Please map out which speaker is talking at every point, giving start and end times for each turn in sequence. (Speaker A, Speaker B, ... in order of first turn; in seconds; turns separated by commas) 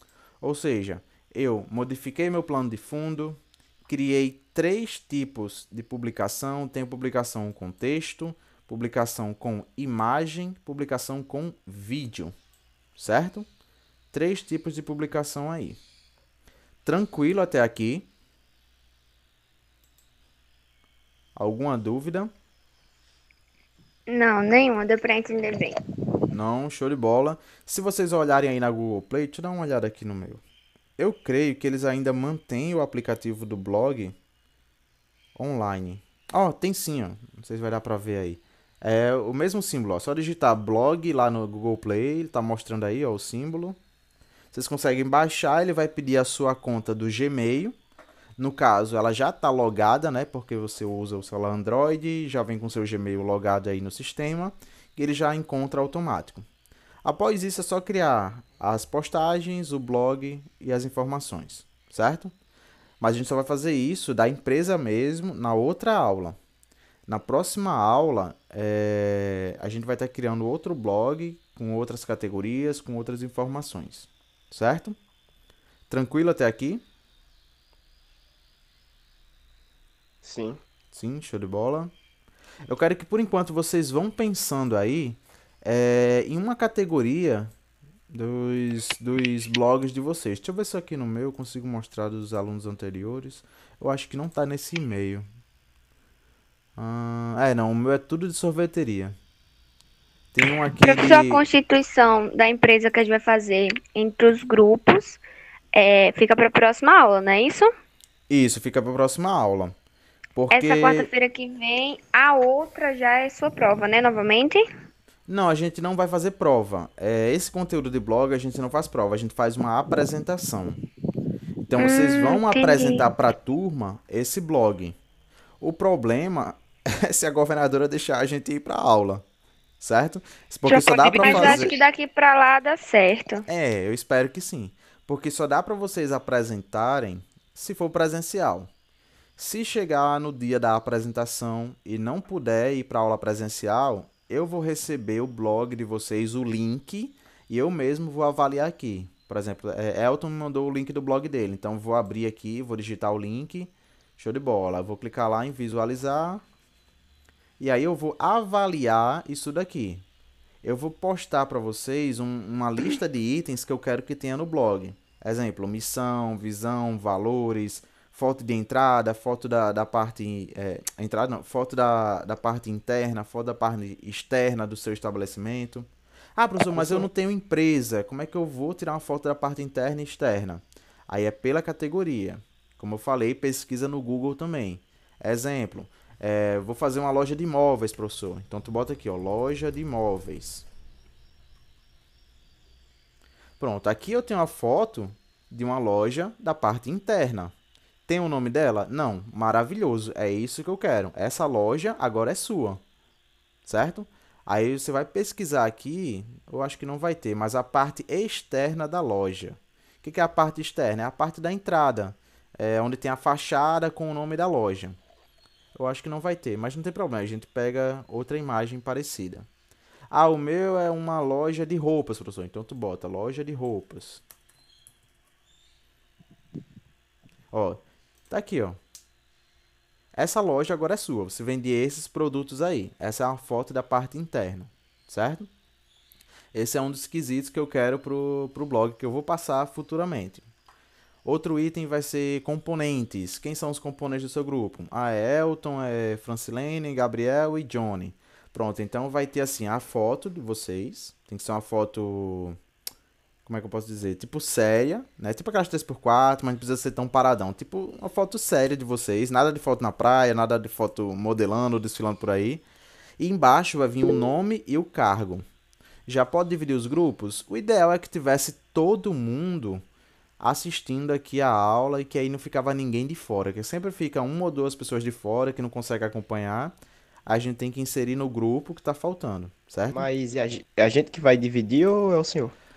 Speaker A: 0.4-12.3, Speaker A: 12.9-13.5, Speaker A: 14.1-15.8, Speaker A: 16.8-18.1, Speaker A: 21.4-22.3, Speaker B: 24.1-25.8, Speaker A: 26.3-30.4, Speaker A: 31.0-34.1, Speaker A: 35.4-43.8, Speaker A: 44.5-47.8, Speaker A: 48.4-56.4, Speaker A: 57.0-62.3, Speaker A: 63.0-66.4, Speaker A: 67.1-75.0, Speaker A: 75.9-76.8, Speaker C: 80.2-80.6, Speaker A: 80.9-81.9, Speaker A: 82.7-87.5, Speaker A: 88.1-95.3, Speaker A: 96.8-99.1, Speaker A: 100.3-101.4, Speaker B: 100.8-105.2, Speaker B: 105.7-107.7, Speaker A: 108.3-109.7, Speaker A: 110.3-111.1, Speaker B: 110.5-114.6, Speaker A: 115.3-120.8, Speaker A: 121.6-125.0, Speaker B: 121.8-123.0, Speaker A: 125.6-129.2, Speaker A: 129.8-131.7, Speaker B: 130.7-133.4, Speaker A: 133.5-138.7, Speaker A: 139.4-156.4, Speaker A: 157.6-160.0, Speaker A: 160.6-190.7, Speaker A: 193.6-197.5, Speaker A: 198.1-202.8, Speaker A: 203.6-215.0, Speaker A: 215.7-219.5, Speaker A: 220.1-224.2, Speaker A: 227.5-228.8, Speaker A: 230.2-235.5, Speaker A: 236.5-240.4, Speaker A: 241.2-252.6, Speaker A: 253.4-262.6, Speaker A: 263.2-265.4, Speaker A: 266.1-269.8, Speaker A: 270.4-276.7, Speaker A: 277.3-280.0, Speaker C: 279.9-282.5